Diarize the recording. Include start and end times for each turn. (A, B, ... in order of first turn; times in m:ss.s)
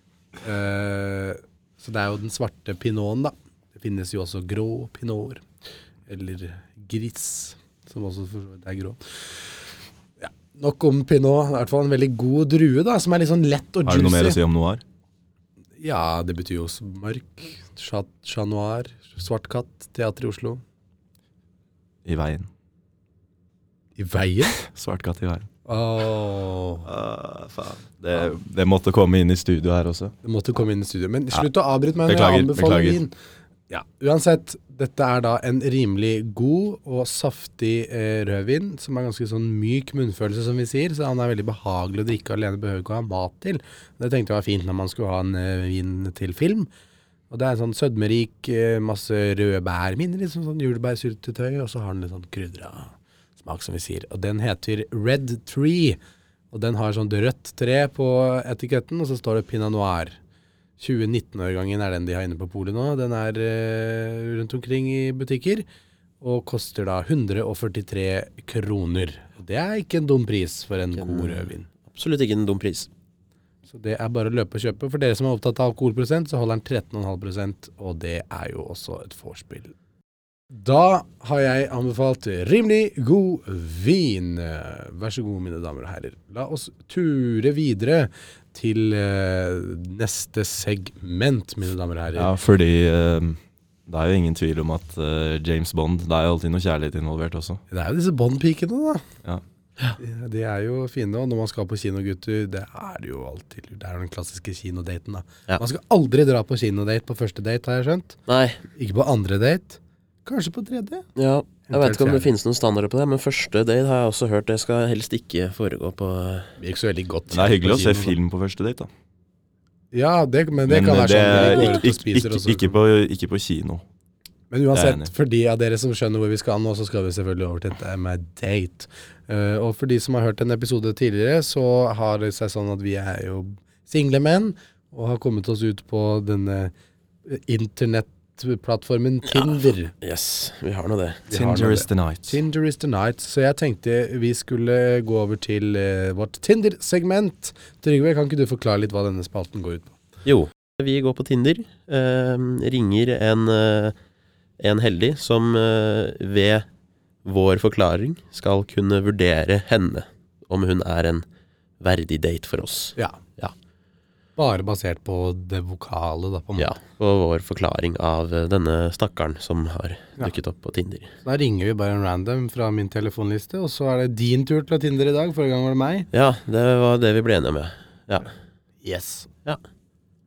0:00.4-0:05.4 A
0:06.1-0:09.0 A
0:10.2-0:14.4 A
0:13.8-0:14.8 B
0:15.8-0:20.6 A
0:22.1-0:22.5 B
0:24.0-0:24.6 A
0:24.6-0:25.5 B
0:25.7-0:26.9 A
0:26.8-0:30.1 B
0:30.2-0:33.1 A
0:32.1-0:33.0 B
0:33.7-0:46.7 A
0:47.3-0:56.0 A
0:56.5-1:00.2 A
1:00.8-1:05.7 A
1:06.2-1:11.7 A
1:11.0-1:12.9 C
1:13.7-1:19.7 A
1:20.5-1:32.3 A
1:32.2-1:37.6 B
1:37.7-1:39.0 A
1:40.0-1:48.2 A
1:48.3-1:48.6 C
1:48.8-1:51.1 A
1:51.2-1:56.5 C
1:51.7-1:52.3 A
1:56.6-1:58.2 A
1:57.3-1:58.9 B
1:59.9-2:02.8 A
2:00.7-2:03.8 B
2:04.5-2:16.7 A
2:04.7-2:05.1 B
2:17.3-2:19.9 A
2:19.3-2:21.2 C
2:21.3-2:30.0 A
2:21.3-2:22.4 B
2:30.2-2:34.0 C
2:34.6-2:36.7 C
2:37.2-2:41.2 C
2:41.8-2:43.5 C
2:44.4-2:46.8 A
2:46.6-2:51.1 C
2:51.2-2:56.1 A
2:56.1-2:58.3 C
2:58.8-2:59.3 A